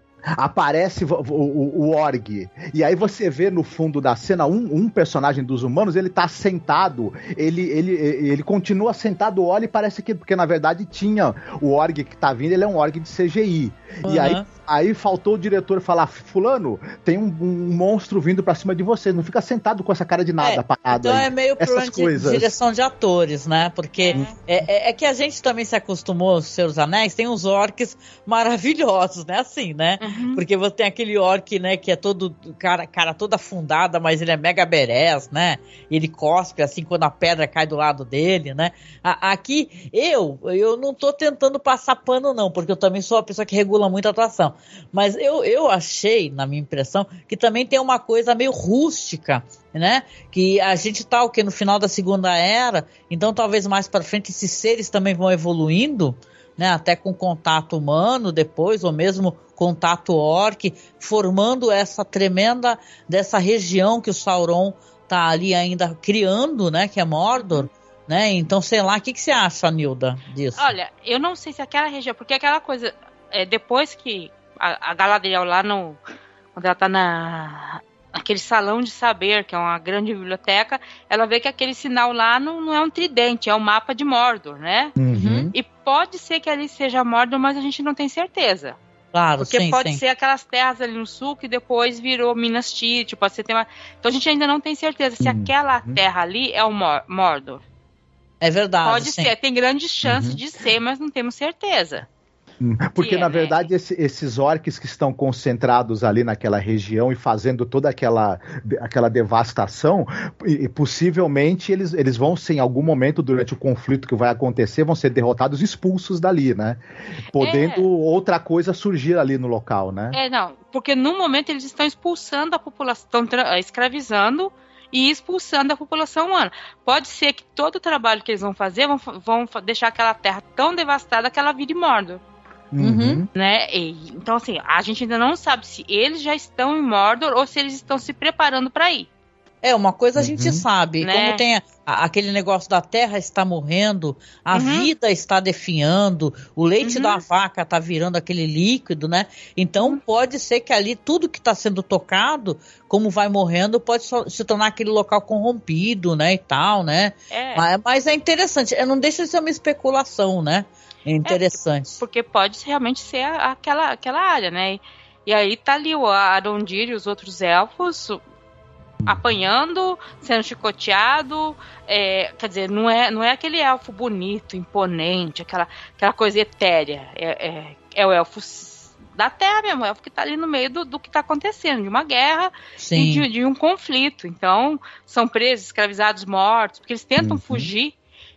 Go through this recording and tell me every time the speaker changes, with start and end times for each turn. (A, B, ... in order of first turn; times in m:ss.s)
0:00.4-0:22.5 A
0:14.0-0:14.4 B
0:20.4-1:10.7 B
0:24.0-0:24.3 C
0:30.0-0:30.4 C
1:07.4-1:07.7 C
1:10.5-1:16.0 C
1:16.5-1:25.0 C
1:25.0-1:25.5 A
1:25.1-1:25.5 B
1:25.5-1:28.8 C
1:29.1-1:30.0 B
1:29.4-1:37.6 C
1:35.2-1:36.0 A
1:38.4-1:39.3 B
1:38.8-1:42.0 C
1:40.0-1:40.4 A
1:42.6-1:56.8 A
1:43.0-1:43.6 C
1:57.3-2:00.2 A
1:57.4-1:57.8 C
2:00.1-2:12.2 C
2:12.7-2:13.3 A
2:12.8-2:13.2 B
2:13.3-2:19.1 C
2:19.6-2:42.0 B
2:20.2-2:20.6 A
2:21.0-2:21.4 C
2:24.5-2:24.9 C
2:26.8-2:27.2 C
2:37.3-2:37.6 C
2:41.2-2:48.2 C
2:49.0-2:49.3 A
2:49.0-3:07.9 C
3:02.8-3:03.2 B
3:07.2-3:07.7 A